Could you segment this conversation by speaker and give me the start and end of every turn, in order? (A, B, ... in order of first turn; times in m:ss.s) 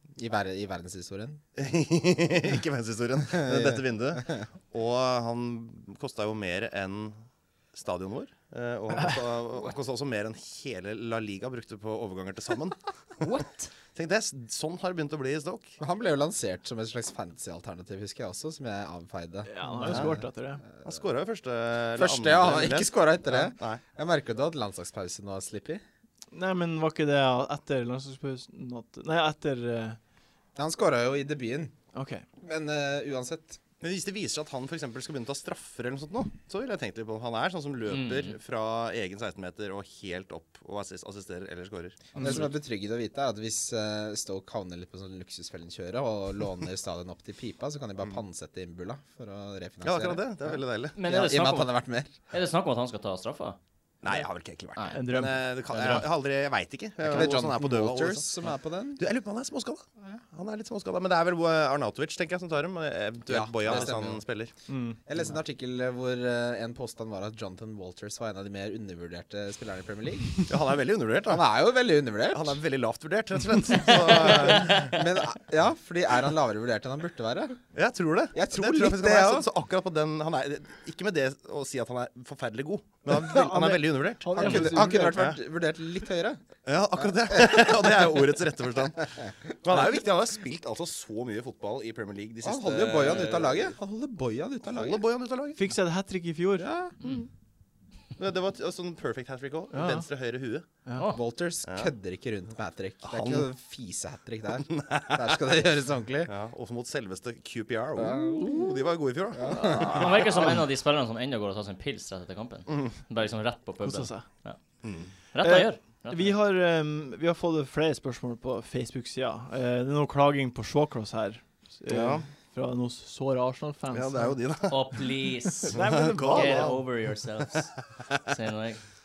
0:00.2-0:01.4 A
0:01.6-0:07.2 B
0:03.3-0:04.3 A
0:07.7-0:13.2 B
0:13.9-0:15.8 B
0:15.8-0:20.2 A
0:19.5-0:20.6 C
0:19.8-0:20.2 B
0:20.8-0:23.8 B
0:22.0-0:25.8 A
0:26.3-0:30.0 C
0:30.5-0:31.7 A
0:31.9-0:32.2 C
0:32.4-0:33.6 A
0:33.8-0:42.4 B
0:37.8-0:38.4 D
0:42.1-0:52.1 A
0:49.8-0:51.0 B
0:50.9-0:51.8 D
0:52.3-0:53.6 D
0:54.0-0:58.3 B
0:54.8-0:55.1 D
0:54.9-0:55.4 C
0:55.7-0:56.0 A
0:55.7-0:56.1 D
0:57.0-0:59.0 A
0:59.0-1:04.5 B
1:03.2-1:04.2 A
1:04.7-1:05.0 C
1:05.0-1:10.4 A
1:10.4-1:11.5 B
1:11.3-1:12.6 A
1:12.3-1:15.0 B
1:14.0-1:17.6 A
1:14.4-1:15.0 D
1:17.7-1:25.4 B
1:18.3-1:19.5 A
1:23.1-1:25.2 C
1:24.3-1:26.4 A
1:26.6-1:33.7 B
1:27.0-1:27.8 A
1:32.4-1:35.0 A
1:34.7-1:35.6 B
1:35.6-1:36.7 C
1:36.6-1:36.9 A
1:38.2-1:40.6 B
1:39.7-1:40.1 C
1:40.8-1:41.1 C
1:41.1-1:46.3 A
1:41.6-1:41.9 B
1:43.0-1:43.5 B
1:44.6-1:45.4 B
1:46.2-1:50.6 B
1:48.0-1:48.7 A
1:49.3-1:50.2 A
1:49.7-1:54.6 D
1:53.8-1:54.2 C
1:54.8-1:55.1 B
1:55.3-1:56.3 D
1:55.4-2:04.4 C
2:01.9-2:02.2 B
2:03.9-2:05.0 B
2:04.7-2:08.8 D
2:05.7-2:06.8 C
2:05.7-2:06.8 B